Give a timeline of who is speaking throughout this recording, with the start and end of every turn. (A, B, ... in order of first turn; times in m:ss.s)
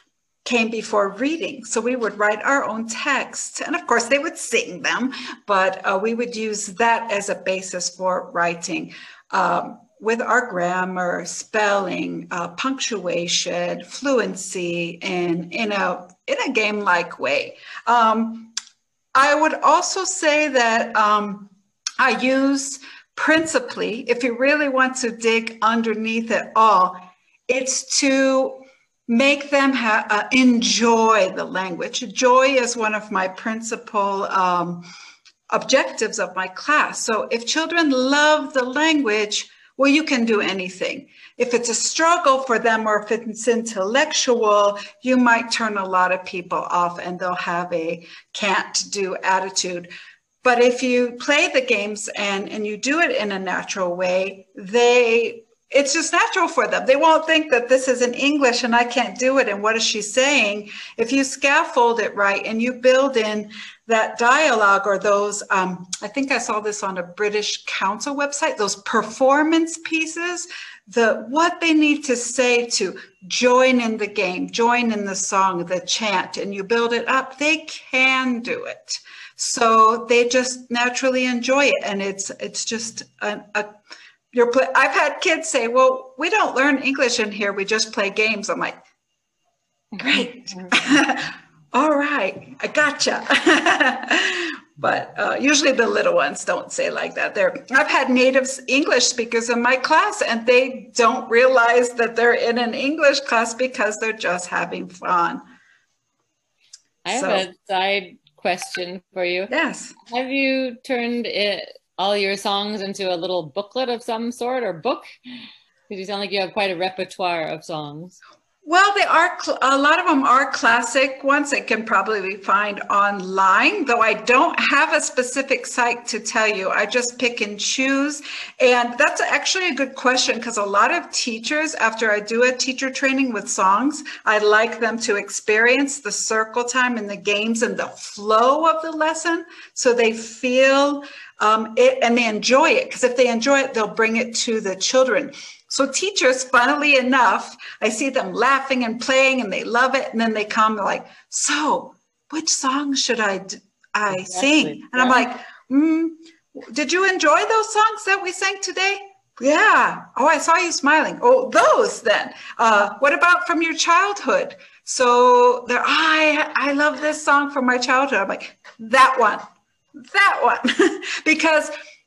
0:00.4-0:18.5 A
0:19.1-0:34.9 A
0:35.5-0:49.9 A
0:50.4-1:23.8 A
1:24.3-1:28.8 A
1:29.9-1:30.7 B
1:30.0-1:45.4 A
1:47.0-1:49.5 B
1:47.1-1:47.5 A
1:49.5-1:50.0 A
1:50.1-1:55.1 B
1:55.9-1:58.2 B
1:58.6-2:49.4 A
2:34.1-2:35.2 B
2:50.0-2:51.7 A